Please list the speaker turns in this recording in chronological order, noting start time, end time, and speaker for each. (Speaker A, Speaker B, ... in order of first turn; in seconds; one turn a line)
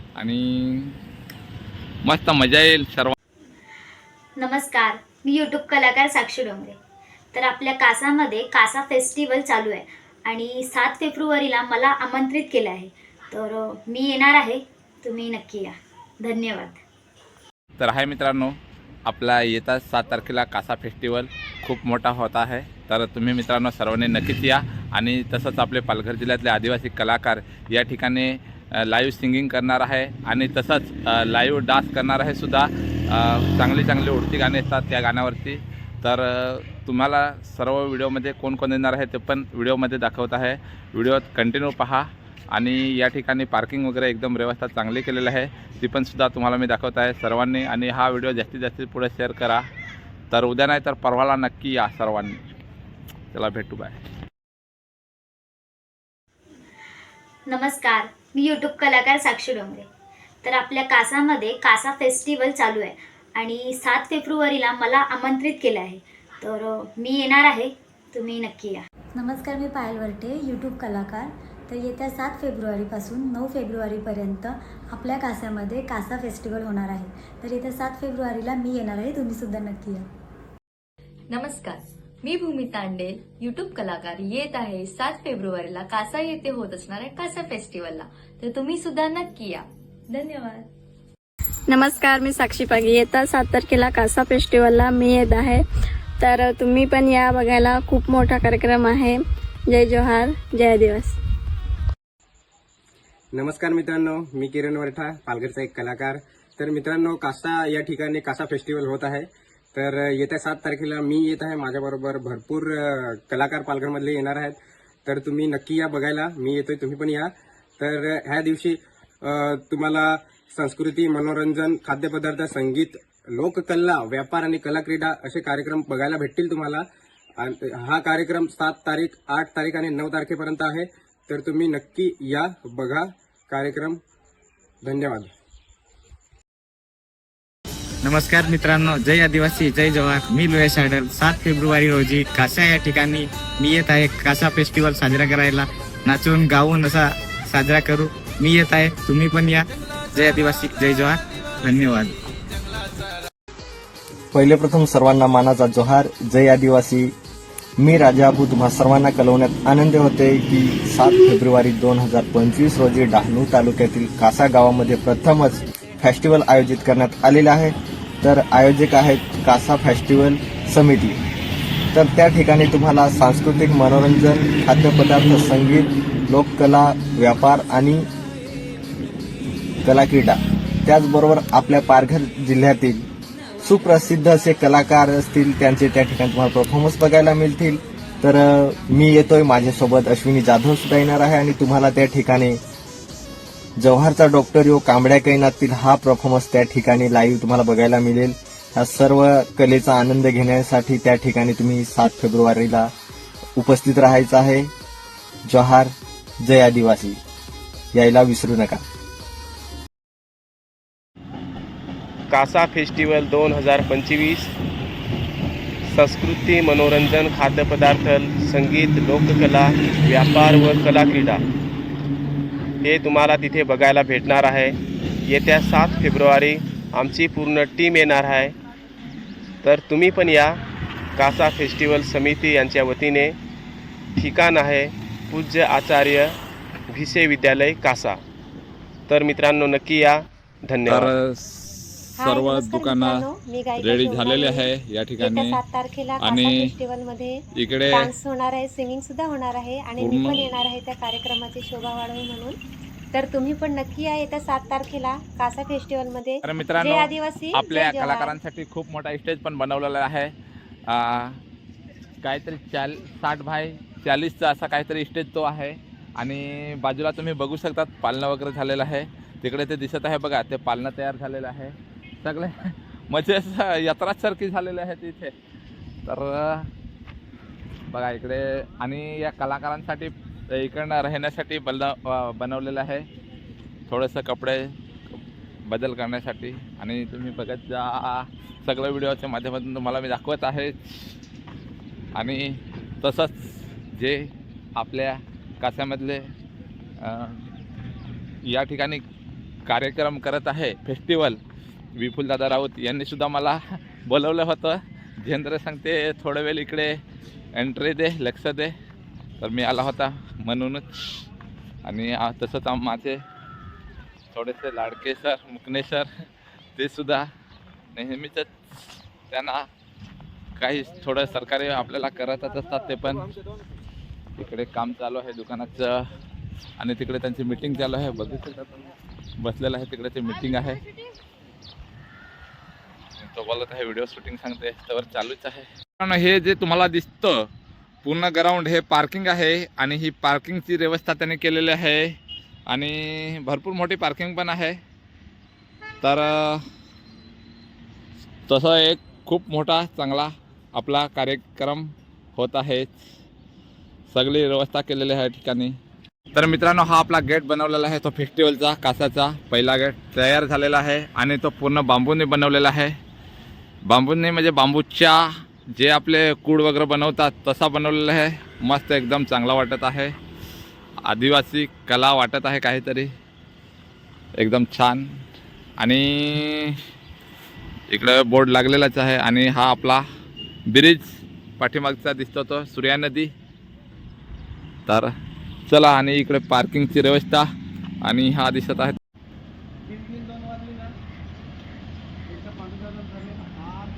Speaker A: 0.2-0.9
Speaker A: 2.0-3.1
Speaker B: 4.4-6.8
Speaker B: 7.3-16.8
Speaker A: 17.8-49.7
Speaker A: 50.3-52.4
Speaker A: 53.3-54.0
Speaker B: 57.5-59.9
Speaker B: 60.4-68.9
Speaker C: 69.2-80.0
Speaker D: 81.3-90.7
Speaker E: 91.7-95.6
Speaker E: 96.2-101.1
Speaker F: 103.3-126.9
Speaker F: 127.4-134.0
Speaker F: 134.8-135.3
Speaker G: 138.0-152.1
Speaker H: 154.3-157.1
Speaker H: 157.8-171.2
Speaker H: 171.9-178.1
Speaker H: 179.8-183.1
Speaker H: 183.6-192.6
Speaker H: 193.8-202.9
Speaker H: 203.6-204.7
Speaker H: 205.5-207.2
Speaker H: 207.9-208.8
Speaker I: 212.3-214.6
Speaker I: 215.9-221.4
Speaker I: 222.8-228.6
Speaker I: 229.6-230.6
Speaker I: 231.2-233.4
Speaker I: 234.2-236.4
Speaker I: 236.9-238.2
Speaker I: 239.1-241.1
Speaker A: 240.9-243.2
Speaker J: 242.2-252.6
Speaker A: 243.8-245.6
Speaker A: 246.2-246.7
Speaker A: 247.6-248.1
Speaker A: 250.0-250.5
Speaker J: 253.1-258.4
Speaker A: 256.4-260.3
Speaker A: 260.9-261.4
Speaker A: 262.2-275.3
Speaker A: 276.1-276.7
Speaker A: 277.9-283.1
Speaker A: 283.9-284.7
Speaker A: 285.7-291.1
Speaker A: 292.1-296.3
Speaker A: 297.0-297.5
Speaker A: 298.4-299.0
Speaker A: 299.7-301.4
Speaker A: 302.0-307.0
Speaker A: 307.5-308.8
Speaker A: 309.4-311.2
Speaker A: 311.9-313.2
Speaker A: 314.3-316.1
Speaker A: 316.8-317.3
Speaker A: 317.9-318.5
Speaker A: 319.3-319.7
Speaker A: 320.6-323.3
Speaker A: 324.4-326.1
Speaker A: 326.8-328.9
Speaker A: 329.4-330.8
Speaker A: 333.2-337.5
Speaker A: 338.0-342.2
Speaker A: 342.7-344.8
Speaker A: 346.0-346.6
Speaker A: 348.5-353.0
Speaker A: 354.1-355.8
Speaker A: 356.3-363.0
Speaker A: 363.9-370.1
Speaker A: 371.0-373.1
Speaker A: 374.4-375.2
Speaker A: 375.8-376.8
Speaker A: 377.9-380.1
Speaker A: 380.7-381.1
Speaker A: 381.6-383.3
Speaker A: 384.9-385.1
Speaker A: 385.7-387.5
Speaker A: 388.0-389.0